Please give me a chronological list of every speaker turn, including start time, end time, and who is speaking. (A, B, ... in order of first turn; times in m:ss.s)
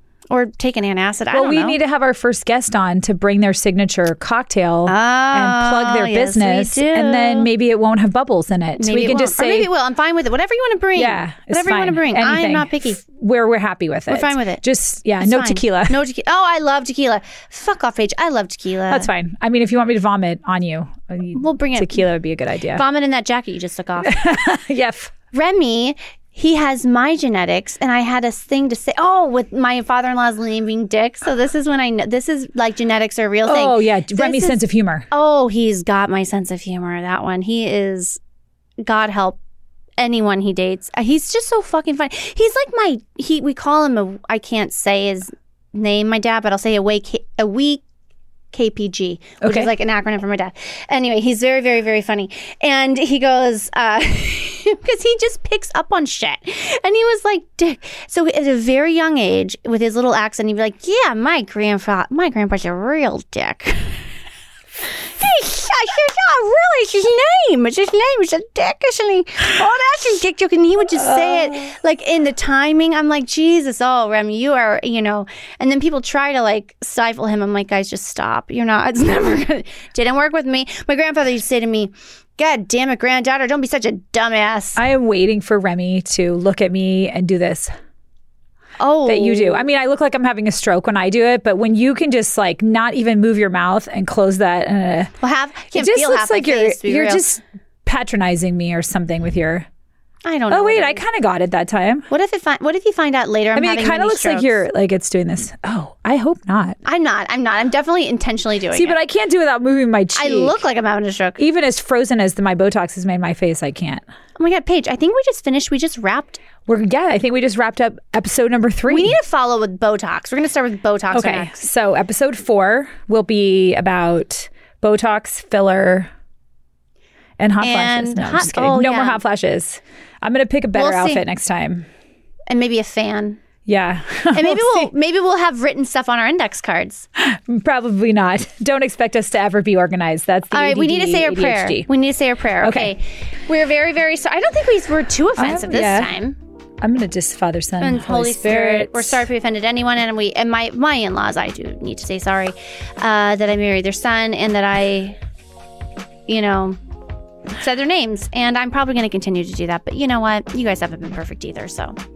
0:00.3-0:01.8 A
0:01.3-0:09.7 B
0:04.8-0:07.5 A
0:08.8-0:13.0 A
0:11.0-0:16.0 B
0:14.1-0:14.6 A
0:15.2-0:19.1 A
0:18.9-0:22.8 B
0:21.3-0:22.0 A
0:22.7-0:24.6 A
0:24.0-0:25.1 B
0:25.3-0:38.2 A
0:33.4-0:35.1 B
0:38.8-0:39.4 A
0:40.0-0:47.8 A
0:48.5-1:04.1 A
0:49.4-0:49.7 B
1:05.1-1:24.8 A
1:10.9-1:11.7 B
1:24.8-1:27.7 B
1:28.8-1:29.6 A
1:29.0-1:35.1 B
1:35.2-1:37.3 A
1:35.7-1:39.7 B
1:40.2-1:41.0 A
1:40.5-1:42.1 B
1:42.1-1:44.6 A
1:43.5-1:46.8 B
1:46.8-1:49.0 A
1:48.7-1:50.6 B
1:50.2-1:51.4 A
1:51.4-1:54.0 B
1:54.4-1:56.4 A
1:56.7-1:59.2 B
1:58.9-2:01.6 A
2:01.1-2:06.1 B
2:07.4-2:11.8 B
2:07.6-2:09.2 A
2:10.7-2:11.2 A
2:12.5-2:13.4 A
2:13.6-2:14.9 B
2:14.3-2:17.0 A
2:17.2-2:21.9 B
2:20.5-2:26.4 A
2:22.6-2:22.9 B
2:25.4-2:26.1 B
2:26.8-2:29.2 B
2:27.8-2:35.2 A
2:36.3-2:36.8 A
2:37.5-2:42.0 A